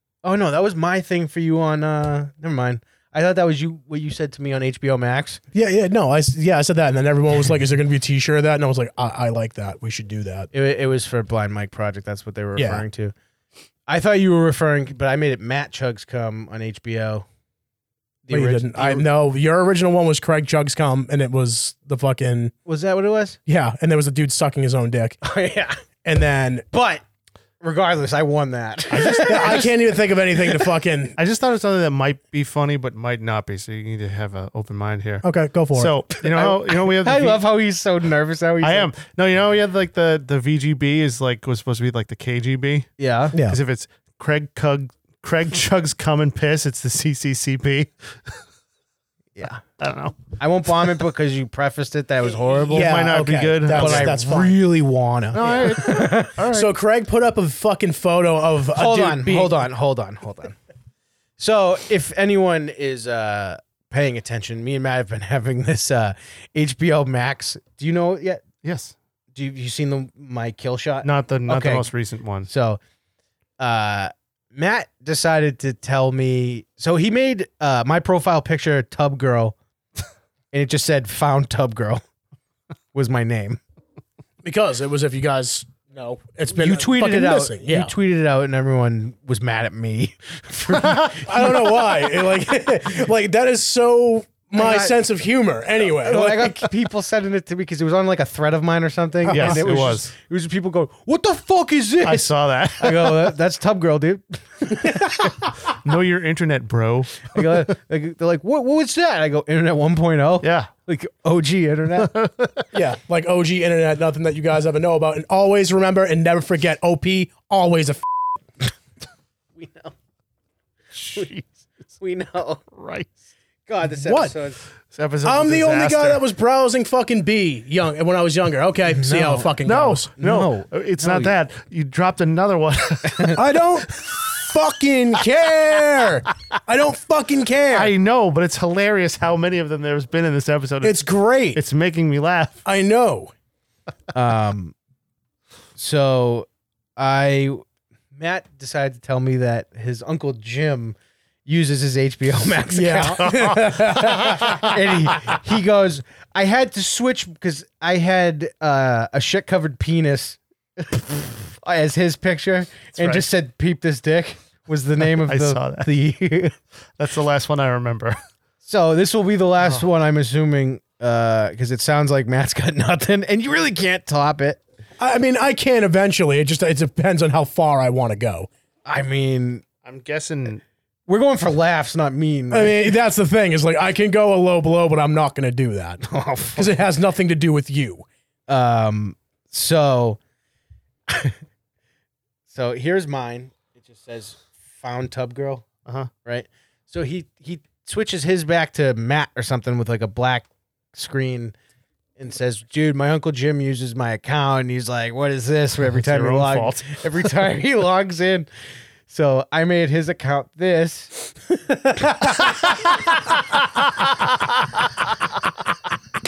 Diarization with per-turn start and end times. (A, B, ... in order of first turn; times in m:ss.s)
0:00.2-0:05.4 A
0:05.5-0:10.5 B
0:10.5-0:13.1 A
0:12.6-0:12.8 B
0:13.9-0:17.3 A
0:18.2-0:19.1 A
0:18.3-0:22.5 B
0:22.6-0:23.4 A
0:23.5-0:25.2 B
0:25.2-0:25.8 A
0:26.0-0:26.7 B
0:26.7-0:27.0 A
0:27.6-0:29.8 A
0:28.9-0:29.7 C
0:29.2-0:31.2 B
0:31.2-0:37.4 C
0:35.2-0:35.9 B
0:36.2-0:38.9 A
0:38.6-0:42.9 C
0:43.0-0:43.4 A
0:43.3-0:43.6 B
0:43.5-0:48.4 C
0:49.4-0:49.6 A
0:49.8-0:50.3 C
0:50.4-0:56.4 A
0:52.7-0:54.2 C
0:52.7-0:54.6 B
0:55.3-0:56.7 C
0:56.5-0:59.6 B
0:58.7-1:00.6 A
1:01.4-1:08.4 A
1:08.6-1:09.0 C
1:09.3-1:11.9 A
1:11.0-1:12.5 C
1:12.5-1:12.8 A
1:13.6-1:19.6 A
1:20.5-1:22.0 A
1:22.9-1:23.6 A
1:24.4-1:27.9 B
1:26.5-1:32.3 A
1:31.1-1:36.7 B
1:34.6-1:35.0 A
1:35.8-1:45.2 A
1:39.3-1:40.1 C
1:42.0-1:43.3 C
1:45.7-1:47.7 C
1:47.3-1:52.1 A
1:50.4-1:50.7 C
1:52.0-1:52.6 C
1:52.7-1:58.1 B
1:59.6-1:59.9 A
2:01.0-2:01.4 C
2:02.0-2:02.6 A
2:02.7-2:03.1 C
2:03.7-2:04.6 A
2:04.0-2:04.4 B
2:04.9-2:06.2 C
2:05.2-2:10.1 B
2:08.9-2:09.5 A
2:09.6-2:13.4 C
2:10.2-2:11.4 A
2:13.3-2:17.9 B
2:13.9-2:14.3 C
2:17.7-2:22.6 C
2:20.8-2:21.6 B
2:22.6-2:23.3 B
2:24.1-2:24.8 A
2:25.8-2:46.6 A
2:32.7-2:34.6 B
2:33.2-2:35.2 C
2:43.0-2:43.3 C
2:45.2-2:45.9 C
2:47.0-2:48.2 C
2:48.6-2:54.6 A
2:55.0-2:58.5 B
2:58.8-2:59.6 A
2:59.8-3:00.6 C
3:01.1-3:02.9 A
3:02.5-3:06.0 B
3:06.0-3:06.8 A
3:06.6-3:08.1 B
3:08.5-3:10.2 A
3:11.1-3:11.4 A
3:12.5-3:15.7 A
3:16.2-3:21.6 A
3:22.2-3:28.5 A
3:25.9-3:27.0 C
3:29.1-3:31.2 A
3:31.9-3:32.6 B
3:33.8-3:34.7 C